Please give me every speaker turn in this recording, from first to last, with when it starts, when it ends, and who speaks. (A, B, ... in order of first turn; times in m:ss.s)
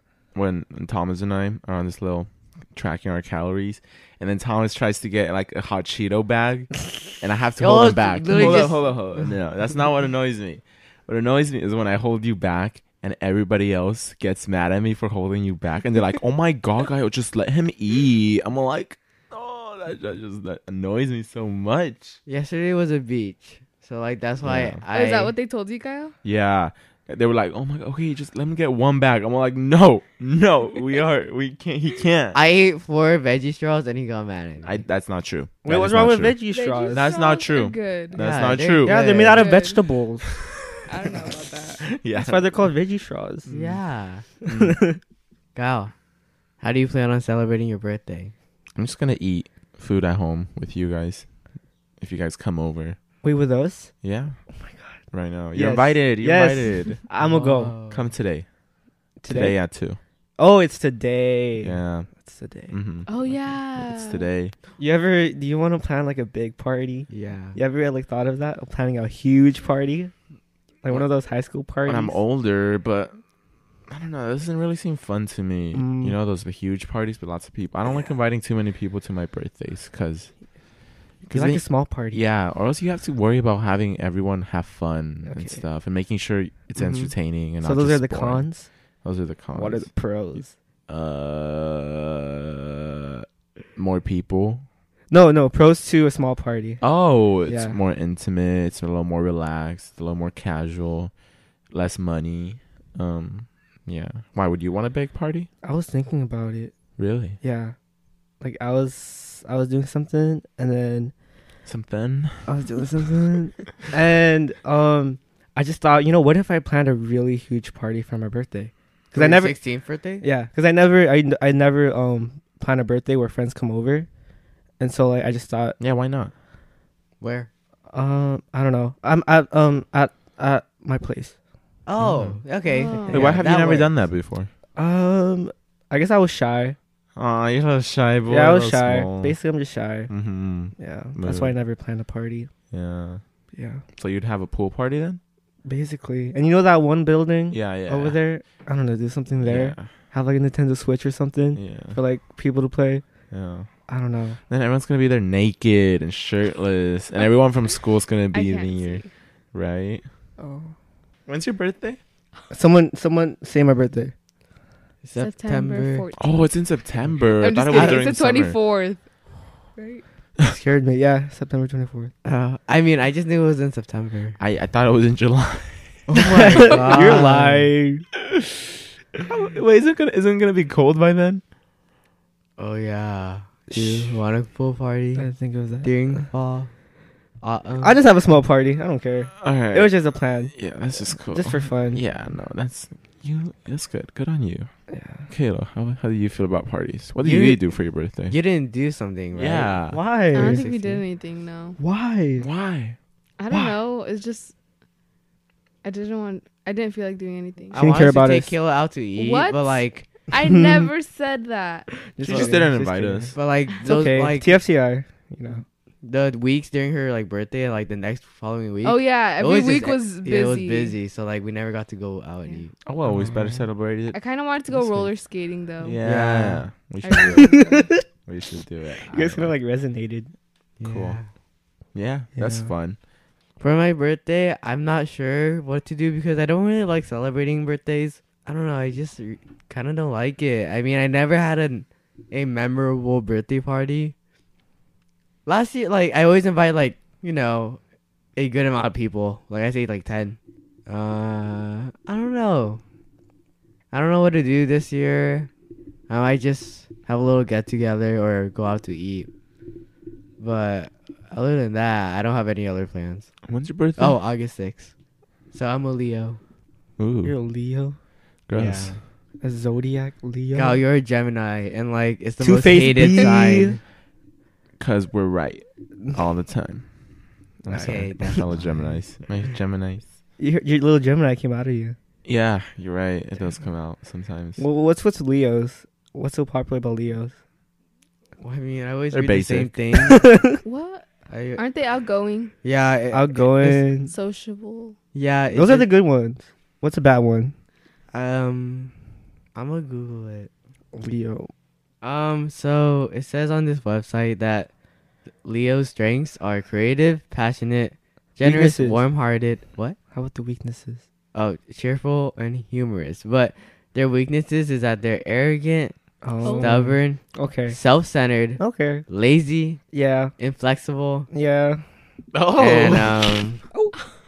0:00.3-0:22.2 A
0:07.6-0:09.3 B
0:22.3-0:25.4 B
0:24.4-0:24.8 A
0:24.9-0:26.1 C
0:26.2-0:32.4 A
0:32.3-0:34.8 B
0:34.6-0:36.4 A
0:35.6-0:37.1 D
0:36.5-0:38.2 C
0:36.9-0:39.5 A
0:38.2-0:39.0 B
0:38.8-0:40.3 D
0:38.9-0:39.8 C
0:40.3-0:40.6 A
0:40.9-0:41.8 C
0:41.8-0:42.7 A
0:42.1-0:43.5 D
0:43.5-0:43.8 A
0:43.5-0:44.3 B
0:44.5-0:44.8 A
0:44.5-0:45.0 D
0:45.6-0:45.9 B
0:46.6-0:48.3 B
0:48.8-0:51.3 A
0:52.0-0:53.0 A
0:53.2-0:54.0 D
0:54.0-0:54.4 A
0:54.5-0:57.7 D
0:55.1-0:57.0 A
0:57.2-0:58.1 B
0:57.9-0:58.5 A
0:59.2-0:59.7 D
0:59.3-1:00.0 A
1:00.4-1:02.8 D
1:01.6-1:02.1 A
1:02.7-1:04.5 A
1:03.1-1:04.3 C
1:04.8-1:10.1 D
1:07.1-1:07.6 B
1:10.8-1:12.2 D
1:11.8-1:13.2 A
1:13.9-1:20.4 A
1:15.7-1:16.2 D
1:21.2-1:34.6 A
1:21.3-1:22.2 D
1:25.3-1:25.6 D
1:26.8-1:28.7 D
1:29.5-1:30.6 D
1:35.1-1:36.8 D
1:36.8-1:41.1 A
1:37.4-1:37.8 D
1:41.7-1:45.5 A
1:45.6-1:46.7 D
1:47.0-1:47.4 A
1:47.4-1:47.8 D
1:48.4-1:51.1 D
1:51.7-1:52.5 A
1:52.5-1:59.6 D
1:59.1-2:00.2 B
2:00.2-2:04.1 D
2:04.8-2:05.8 D
2:05.8-2:06.3 A
2:07.2-2:07.5 B
2:07.9-2:11.4 D
2:11.9-2:13.9 B
2:12.0-2:12.4 A
2:12.6-2:13.3 C
2:13.1-2:14.5 A
2:14.8-2:16.8 D
2:17.2-2:19.4 A
2:18.3-2:20.1 D
2:20.1-2:21.6 A
2:20.8-2:22.5 D
2:22.7-2:23.2 A
2:23.6-2:23.8 D
2:24.0-2:25.2 A
2:25.7-2:33.0 D
2:27.5-2:28.2 A
2:29.4-2:30.0 A
2:31.5-2:32.0 A
2:33.3-2:33.7 A
2:33.9-2:34.4 D
2:34.5-2:40.1 A
2:38.3-2:39.1 C
2:40.4-2:40.7 D
2:41.3-2:42.0 A
2:42.5-2:44.1 D
2:45.0-2:46.1 B
2:45.2-2:49.1 C
2:46.2-2:48.6 A
2:47.7-2:48.0 B
2:49.8-2:50.0 C
2:50.5-2:52.1 D
2:52.2-2:54.4 B
2:54.4-2:57.3 A
2:56.1-2:57.7 B
2:56.2-2:58.1 D
2:59.2-3:01.4 A
3:02.6-3:05.3 B
3:03.7-3:04.2 D
3:05.2-3:06.3 D
3:05.8-3:06.7 B
3:07.4-3:08.0 B
3:07.8-3:10.5 D
3:09.4-3:14.7 A
3:11.1-3:12.0 D
3:14.9-3:15.3 D
3:15.3-3:18.4 A
3:17.2-3:17.6 B
3:18.3-3:19.8 B
3:19.3-3:20.0 A
3:19.9-3:20.7 D
3:20.3-3:21.0 B
3:20.3-3:21.8 C
3:21.8-3:22.5 D
3:22.4-3:23.0 A
3:23.4-3:24.5 C
3:25.8-3:27.8 C
3:27.7-3:30.1 B
3:27.7-3:28.6 D
3:29.2-3:32.5 C
3:30.5-3:30.9 D
3:32.1-3:35.6 D
3:32.2-3:33.4 A
3:33.3-3:34.6 B
3:36.0-3:42.7 B
3:38.8-3:41.0 C
3:42.8-3:44.3 A
3:43.0-3:43.7 D
3:44.1-3:46.0 C
3:44.7-3:45.1 D
3:45.8-3:47.6 A
3:46.0-3:46.7 B
3:47.0-3:48.0 C
3:47.7-3:48.0 D
3:48.3-3:49.6 A
3:49.1-3:50.3 D
3:50.8-3:51.3 B
3:50.8-3:51.2 A
3:51.9-3:53.0 A
3:52.4-3:52.7 D
3:53.6-4:04.2 B
4:05.5-4:07.8 B
4:08.4-4:12.8 B
4:13.9-4:15.5 B
4:16.1-4:19.3 B
4:20.4-4:23.3 B
4:23.5-4:24.2 A
4:24.0-4:24.9 B
4:25.5-4:26.4 B
4:27.0-4:27.4 A
4:27.2-4:28.0 D
4:28.5-4:29.0 A
4:28.5-4:29.0 B
4:29.4-4:30.8 D
4:30.5-4:33.8 B
4:32.4-4:33.8 D
4:34.8-4:37.0 A
4:37.6-4:40.1 A
4:37.7-4:38.4 D
4:37.8-4:38.7 B
4:40.4-4:42.0 D
4:42.2-4:44.6 A
4:44.6-4:47.3 D
4:48.4-4:50.3 B
4:49.1-4:49.8 A
4:50.1-4:50.6 D
4:50.6-4:52.5 C
4:51.3-4:51.6 B
4:52.6-4:53.9 B
4:53.1-4:54.1 D
4:54.1-4:55.0 C
4:55.1-4:55.9 B
4:55.5-4:57.5 D
4:58.1-4:58.9 B
4:59.6-5:00.5 B
5:01.0-5:01.5 D
5:02.0-5:04.7 B
5:05.4-5:10.0 B
5:08.4-5:09.1 D
5:10.1-5:11.0 D
5:11.3-5:16.0 B
5:16.2-5:17.8 D
5:16.4-5:16.8 C
5:16.5-5:19.8 B
5:18.6-5:19.1 D
5:19.9-5:20.3 D
5:20.4-5:21.3 B
5:21.3-5:21.8 D
5:22.3-5:23.4 A
5:22.6-5:23.6 B